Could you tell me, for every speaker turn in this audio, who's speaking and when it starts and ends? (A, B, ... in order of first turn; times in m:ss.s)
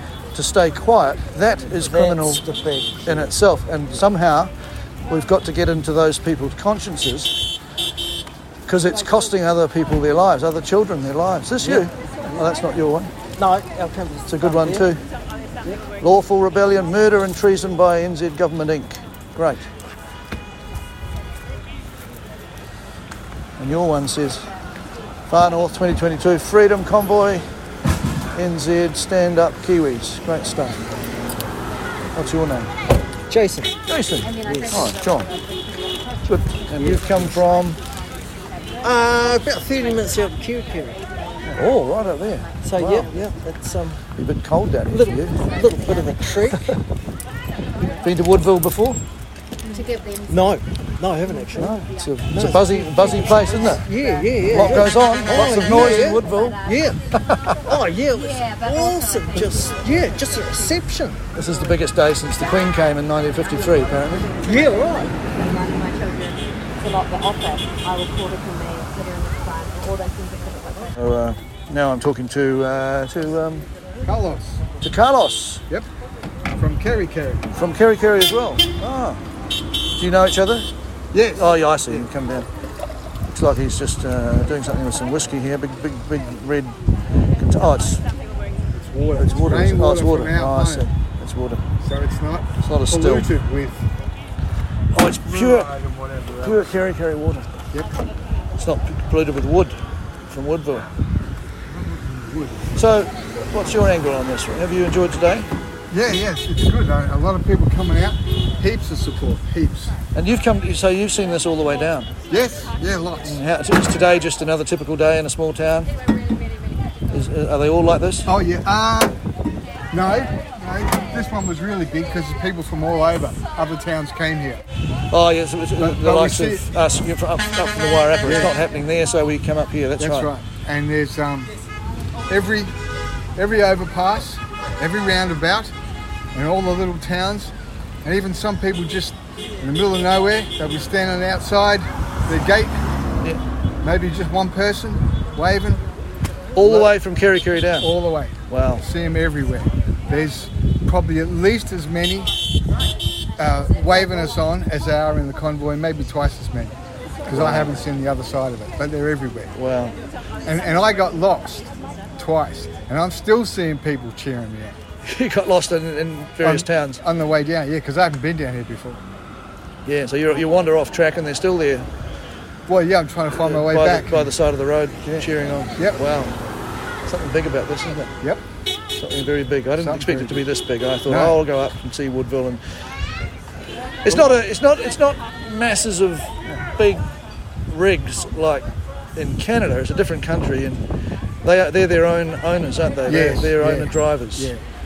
0:00.3-0:02.4 A
0:01.6-0:03.3 B
0:03.0-0:04.5 A
0:05.1-0:07.4 A
0:08.7-0:13.1 A
0:11.6-0:12.4 B
0:13.4-0:14.9 B
0:14.3-0:15.0 A
0:16.0-0:19.7 A
0:23.6-0:24.5 A
0:25.3-0:27.4 A
0:28.3-0:30.8 A
0:32.1-0:32.7 A
0:33.3-0:33.7 B
0:33.9-0:35.3 A
0:34.3-0:35.8 C
0:34.4-0:35.0 B
0:36.3-0:37.8 A
0:36.7-0:37.3 B
0:38.8-0:41.0 B
0:41.5-0:43.1 A
0:42.6-0:44.0 B
0:44.2-0:45.5 A
0:44.9-0:46.8 B
0:45.3-0:46.2 C
0:48.0-0:49.0 A
0:49.6-0:50.4 C
0:50.3-0:57.0 B
0:51.4-0:53.8 A
0:54.4-0:56.8 A
0:57.6-1:01.2 B
0:58.4-0:58.8 C
1:01.4-1:04.3 A
1:04.4-1:05.2 B
1:05.2-1:10.9 C
1:11.0-1:13.6 A
1:14.0-1:14.6 D
1:14.8-1:15.6 A
1:16.5-1:17.4 D
1:17.5-1:19.2 A
1:20.0-1:20.7 A
1:21.1-1:22.1 D
1:21.3-1:22.5 A
1:23.3-1:26.8 A
1:27.4-1:28.0 A
1:28.7-1:30.9 D
1:29.2-1:31.6 A
1:31.8-1:33.9 D
1:32.6-1:33.3 A
1:34.9-1:35.7 A
1:35.2-1:36.7 D
1:36.4-1:37.5 A
1:38.6-1:39.8 A
1:40.3-1:40.9 A
1:41.7-1:42.7 D
1:42.7-1:45.5 A
1:45.9-1:49.9 D
1:50.1-1:52.2 A
1:52.3-1:53.4 D
1:53.2-1:55.9 A
1:57.1-1:58.3 A
1:58.2-1:59.2 D
1:59.9-2:04.6 D
2:05.1-2:10.3 A
2:05.8-2:06.6 D
2:08.2-2:08.5 D
2:10.0-2:11.5 D
2:12.3-2:12.7 D
2:13.4-2:15.7 D
2:16.3-2:17.5 D
2:18.0-2:22.8 D
2:23.8-2:25.8 D
2:26.6-2:27.9 A
2:26.6-2:26.9 D
2:27.8-2:32.3 D
2:28.5-2:28.8 A
2:33.4-2:39.5 D
2:37.3-2:37.8 A
2:39.5-2:40.0 A
2:40.4-2:44.8 D
2:45.0-2:47.0 A
2:46.4-2:49.0 D
2:49.8-2:51.9 A
2:52.7-2:54.3 D
2:53.3-2:56.4 A
2:55.0-2:56.0 D
2:57.0-2:58.1 A
2:59.0-3:02.6 A
2:59.8-3:00.4 D
3:01.0-3:01.4 D
3:04.0-3:07.0 A
3:07.7-3:10.8 A
3:11.4-3:14.5 A
3:13.1-3:14.6 D